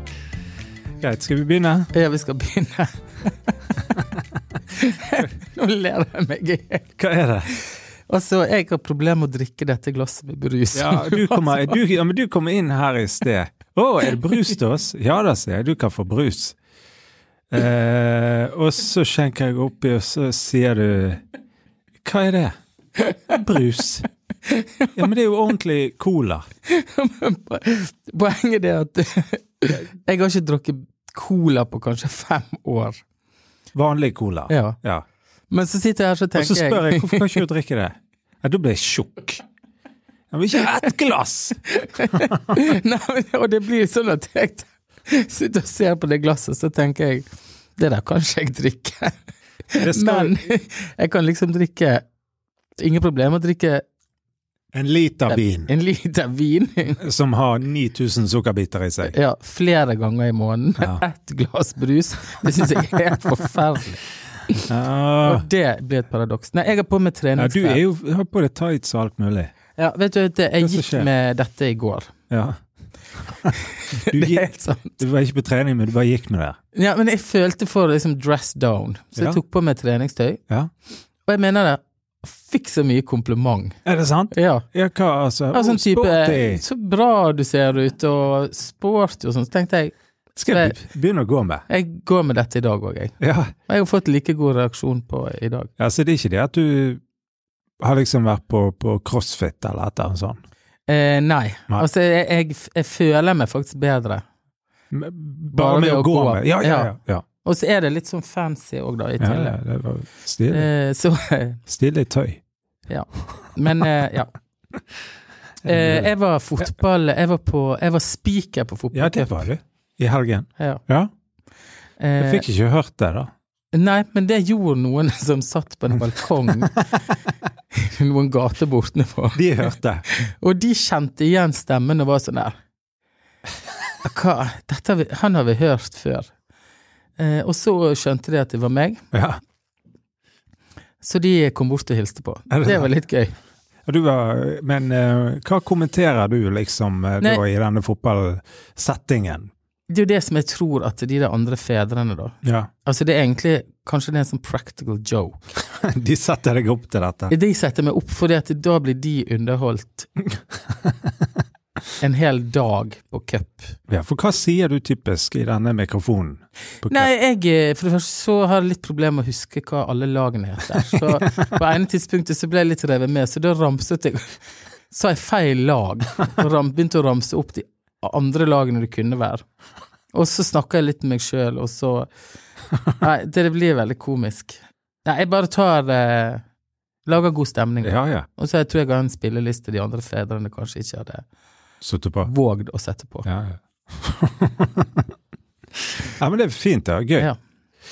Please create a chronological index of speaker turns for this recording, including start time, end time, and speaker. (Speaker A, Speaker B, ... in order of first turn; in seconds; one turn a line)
Speaker A: 1.0-1.9
Speaker B: 1.9-3.6
Speaker B: 4.7-6.9
Speaker A: 7.0-7.5
Speaker B: 7.5-11.8
Speaker A: 10.7-16.6
Speaker A: 17.5-21.2
Speaker A: 22.0-22.5
Speaker A: 23.3-24.1
Speaker B: 24.5-24.9
Speaker A: 25.0-26.4
Speaker B: 26.7-33.0
Speaker A: 33.7-35.0
Speaker B: 34.5-34.8
Speaker B: 35.5-37.4
Speaker A: 36.4-39.4
Speaker A: 40.3-42.6
Speaker B: 41.7-47.3
Speaker B: 47.8-49.2
Speaker B: 49.7-52.0
Speaker A: 49.8-50.4
Speaker B: 52.8-53.8
Speaker A: 54.7-55.7
Speaker B: 55.3-57.0
Speaker A: 57.0-59.1
Speaker B: 59.0-64.7
Speaker A: 60.8-61.0
Speaker A: 64.7-65.5
Speaker B: 65.2-67.8
Speaker A: 67.4-69.5
Speaker B: 69.8-72.1
Speaker A: 70.6-71.1
Speaker A: 72.3-72.6
Speaker B: 73.7-75.0
Speaker A: 74.1-76.6
Speaker B: 76.7-80.4
Speaker B: 81.3-83.8
Speaker A: 83.8-86.6
Speaker B: 84.3-84.7
Speaker B: 85.5-90.8
Speaker A: 90.4-91.6
Speaker B: 91.7-93.1
Speaker A: 93.2-93.5
Speaker B: 93.7-95.7
Speaker A: 95.8-97.0
Speaker A: 97.8-100.4
Speaker B: 100.9-104.2
Speaker A: 104.9-107.2
Speaker B: 105.5-106.9
Speaker B: 107.4-109.6
Speaker A: 109.2-110.7
Speaker B: 110.5-111.6
Speaker A: 111.7-112.4
Speaker B: 112.9-114.3
Speaker A: 115.6-116.1
Speaker B: 115.7-119.5
Speaker A: 118.9-121.1
Speaker B: 122.0-122.4
Speaker A: 122.2-123.3
Speaker B: 123.7-126.8
Speaker B: 127.7-132.6
Speaker A: 129.3-130.0
Speaker B: 134.0-136.3
Speaker B: 137.2-139.0
Speaker A: 139.1-139.4
Speaker B: 141.0-143.3
Speaker A: 142.5-142.9
Speaker A: 143.9-149.5
Speaker B: 149.9-152.3
Speaker A: 152.4-152.7
Speaker B: 152.8-155.5
Speaker A: 155.8-157.3
Speaker B: 157.3-160.1
Speaker B: 162.0-163.8
Speaker A: 163.9-167.1
Speaker B: 166.9-174.4
Speaker B: 174.9-179.4
Speaker B: 180.1-182.1
Speaker B: 183.0-186.4
Speaker B: 187.1-191.2
Speaker A: 187.8-188.3
Speaker A: 191.8-192.3
Speaker B: 192.2-193.3
Speaker A: 193.2-195.0
Speaker A: 195.8-197.3